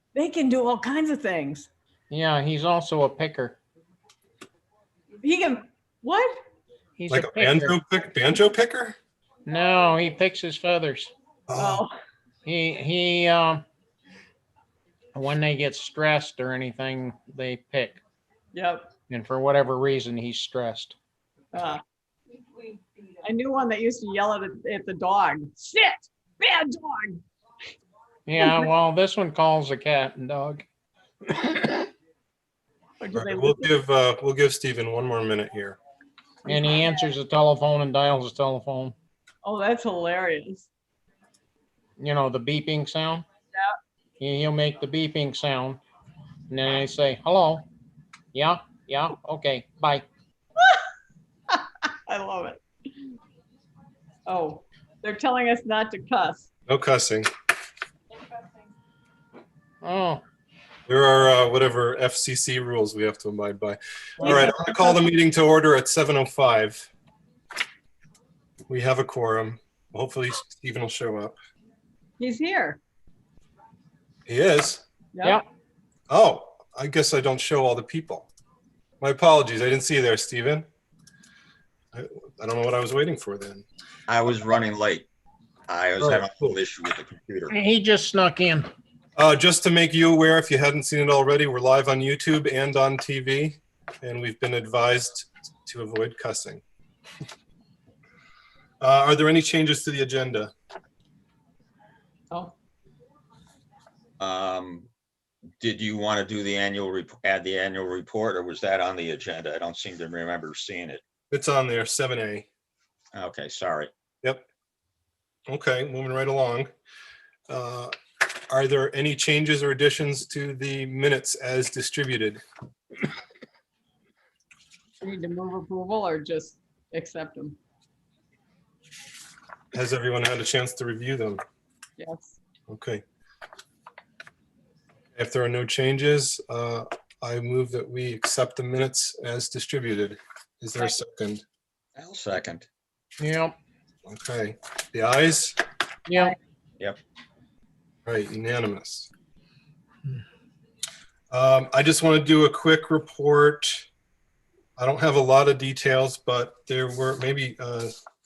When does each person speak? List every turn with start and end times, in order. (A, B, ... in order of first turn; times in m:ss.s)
0:00.1-0:01.7 A
0:02.1-0:03.6 B
0:05.2-0:06.4 A
0:07.0-0:07.8 B
0:07.1-0:09.0 C
0:09.4-0:11.1 B
0:11.5-0:11.8 C
0:11.6-0:12.0 A
0:12.4-0:13.6 B
0:15.1-0:18.0 B
0:18.5-0:18.9 A
0:19.1-0:21.0 B
0:21.5-0:21.8 A
0:23.2-0:27.2 A
0:28.3-0:30.6 B
0:28.4-0:28.6 A
0:31.4-0:31.7 B
0:33.0-0:33.7 A
0:33.1-0:35.8 C
0:36.5-0:37.1 A
0:36.5-0:38.9 B
0:39.4-0:40.7 A
0:42.0-0:43.2 B
0:44.2-0:45.8 B
0:46.5-0:47.6 B
0:48.3-0:50.0 B
0:51.5-0:52.6 A
0:54.3-0:56.5 A
0:56.7-0:57.3 C
0:58.2-0:58.5 A
0:59.8-1:00.2 B
1:00.9-1:06.9 C
1:04.2-1:05.1 A
1:08.7-1:11.4 C
1:12.2-1:12.8 A
1:14.3-1:14.8 C
1:15.1-1:15.4 A
1:16.1-1:18.3 C
1:19.0-1:20.7 C
1:21.9-1:23.6 C
1:24.1-1:25.1 D
1:25.7-1:27.5 D
1:26.0-1:26.6 C
1:27.5-1:28.7 B
1:29.2-1:36.6 C
1:38.8-1:40.5 C
1:44.2-1:44.9 D
1:45.6-1:51.0 D
1:51.3-1:52.5 C
1:53.1-1:53.9 D
1:55.5-1:56.7 C
1:57.5-1:57.9 C
1:58.5-2:02.4 C
2:05.0-2:07.6 A
2:09.7-2:11.4 C
2:12.0-2:12.4 A
2:12.7-2:13.0 C
2:15.2-2:21.4 C
2:22.0-2:22.7 D
2:23.2-2:23.5 B
2:24.0-2:25.6 C
2:26.1-2:26.4 B
2:28.0-2:29.1 C
2:31.3-2:33.9 C
2:34.8-2:37.9 C